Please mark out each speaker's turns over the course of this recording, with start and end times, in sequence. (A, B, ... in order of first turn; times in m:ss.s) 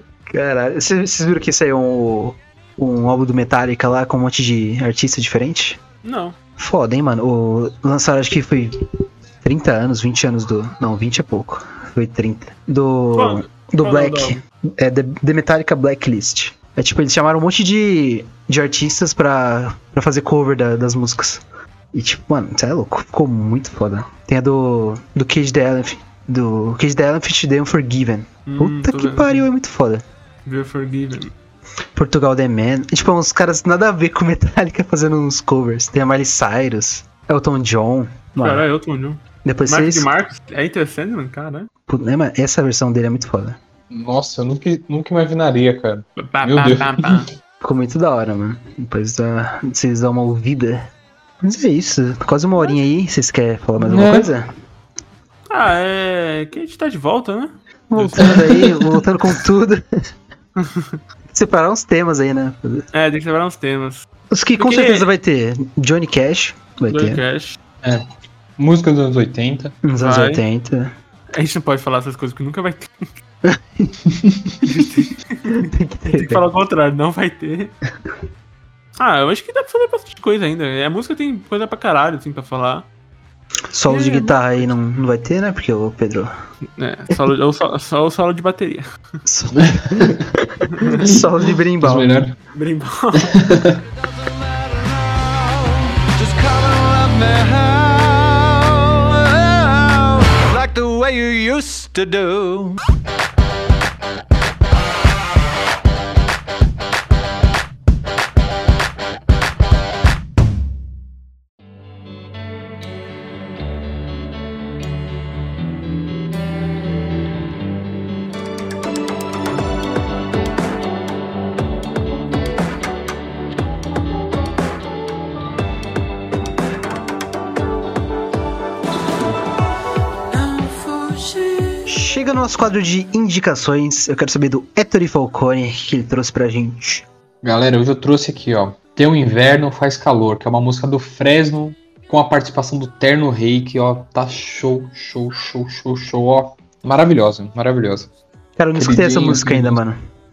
0:00.3-0:05.8 A
0:06.0-0:06.4 B
0:06.6-0:08.9 A
0:09.4-0:21.4 A
0:13.1-0:14.4 B
0:21.9-0:30.0 A
0:28.5-0:29.5 B
0:30.4-0:31.3 B
0:31.9-0:38.6 A
0:38.4-0:41.7 B
0:39.4-0:40.1 A
0:41.9-0:43.6 A
0:43.9-0:47.3 C
0:46.2-0:47.3 B
0:47.6-0:50.9 A
0:51.4-0:54.5 A
0:53.8-0:54.3 C
0:55.5-0:58.4 B
0:57.9-1:00.1 A
0:58.2-0:59.0 C
1:00.6-1:01.0 B
1:01.3-1:02.8 A
1:02.9-1:04.1 B
1:04.3-1:07.2 A
1:04.6-1:05.1 B
1:06.9-1:07.6 B
1:08.6-1:09.8 C
1:09.8-1:10.9 A
1:10.0-1:10.4 B
1:11.3-1:13.1 B
1:13.4-1:14.0 A
1:14.6-1:17.8 B
1:15.6-1:16.4 A
1:19.0-1:22.9 B
1:23.7-1:26.3 A
1:23.9-1:24.7 B
1:26.8-1:28.9 B
1:29.2-1:32.2 A
1:29.6-1:30.2 C
1:30.7-1:31.1 B
1:31.8-1:32.3 C
1:32.5-1:33.4 B
1:33.3-1:33.8 C
1:34.0-1:42.8 D
2:10.3-2:11.9 D
2:11.9-2:17.0 A
2:17.4-2:28.1 C
2:28.6-2:30.0 A
2:28.8-2:29.8 C